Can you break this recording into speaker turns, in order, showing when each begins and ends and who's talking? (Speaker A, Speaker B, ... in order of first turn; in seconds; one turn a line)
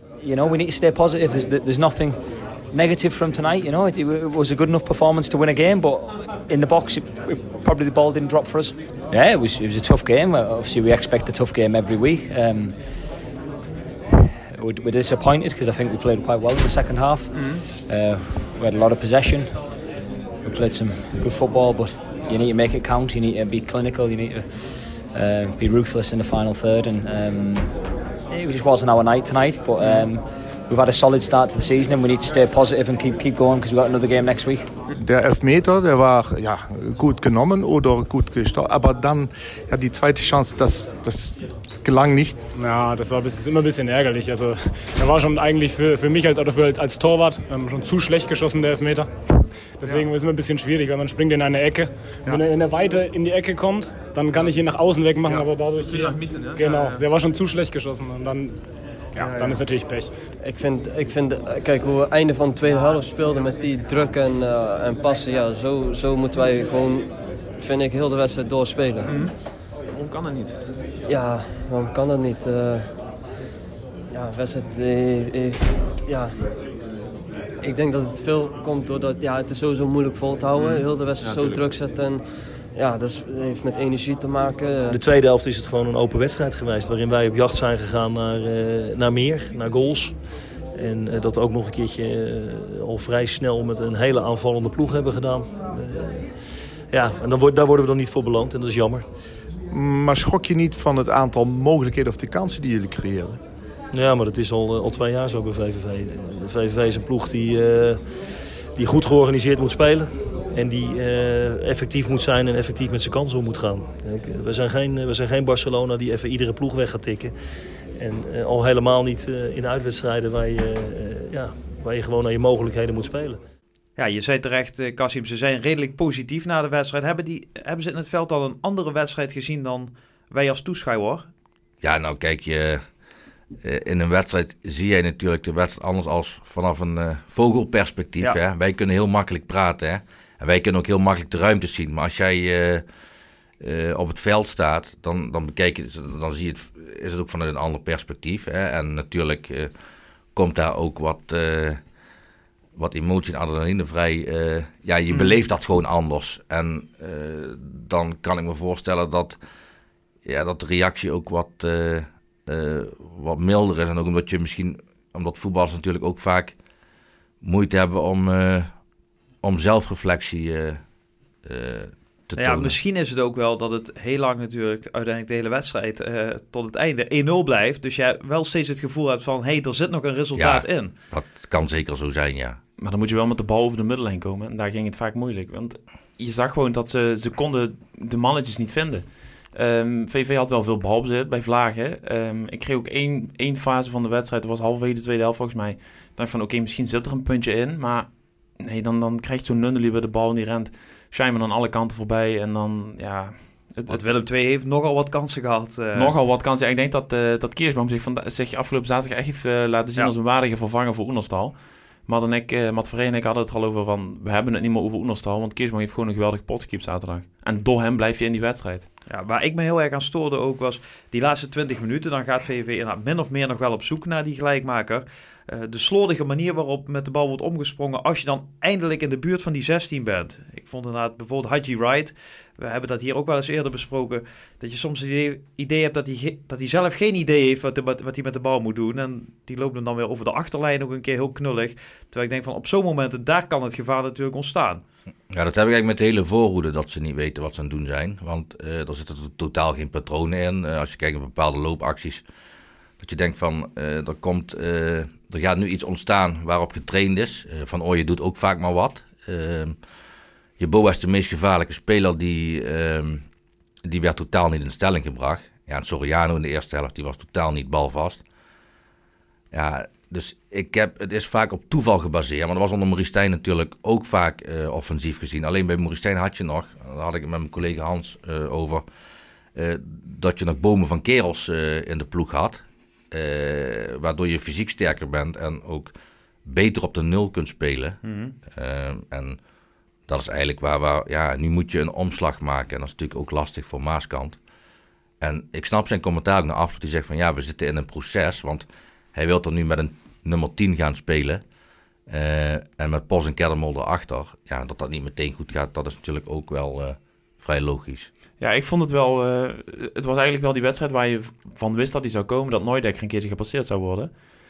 Speaker A: 0.2-13.1
Speaker A: 14.1-19.7
Speaker B: 17.3-17.6
Speaker A: 20.4-34.7
Speaker C: 35.0-42.4
Speaker D: 42.5-49.1
Speaker D: 49.8-60.2
Speaker B: 55.2-57.0
Speaker B: 59.1-59.6
Speaker E: 60.4-69.3
Speaker B: 69.0-70.6
Speaker E: 71.0-73.2
Speaker E: 74.1-76.3
Speaker E: 77.6-85.0
Speaker B: 80.6-81.7
Speaker F: 84.9-90.2
Speaker F: 90.7-99.1
Speaker C: 99.7-103.4
Speaker F: 103.9-117.3
Speaker F: 117.9-123.4
Speaker G: 124.0-131.3
Speaker H: 131.8-132.8
Speaker H: 133.6-142.8
Speaker H: 143.6-149.7
Speaker H: 150.3-151.8
Speaker H: 152.8-159.4
Speaker H: 160.2-166.6
Speaker H: 167.4-168.7
Speaker H: 169.4-170.8
Speaker H: 171.4-172.8
Speaker G: 172.4-180.9
Speaker H: 180.4-182.6
Speaker B: 182.8-204.1
Speaker G: 203.9-206.1
Speaker B: 205.9-218.9
Speaker G: 219.1-244.8
Speaker H: 245.3-252.2
Speaker H: 253.0-259.8
Speaker H: 260.6-263.2
Speaker H: 263.9-268.2
Speaker H: 269.5-278.8
Speaker H: 279.6-285.9
Speaker H: 286.4-289.4
Speaker G: 288.0-288.4
Speaker H: 290.1-294.4
Speaker H: 295.2-301.4
Speaker H: 302.1-308.1
Speaker B: 308.4-314.1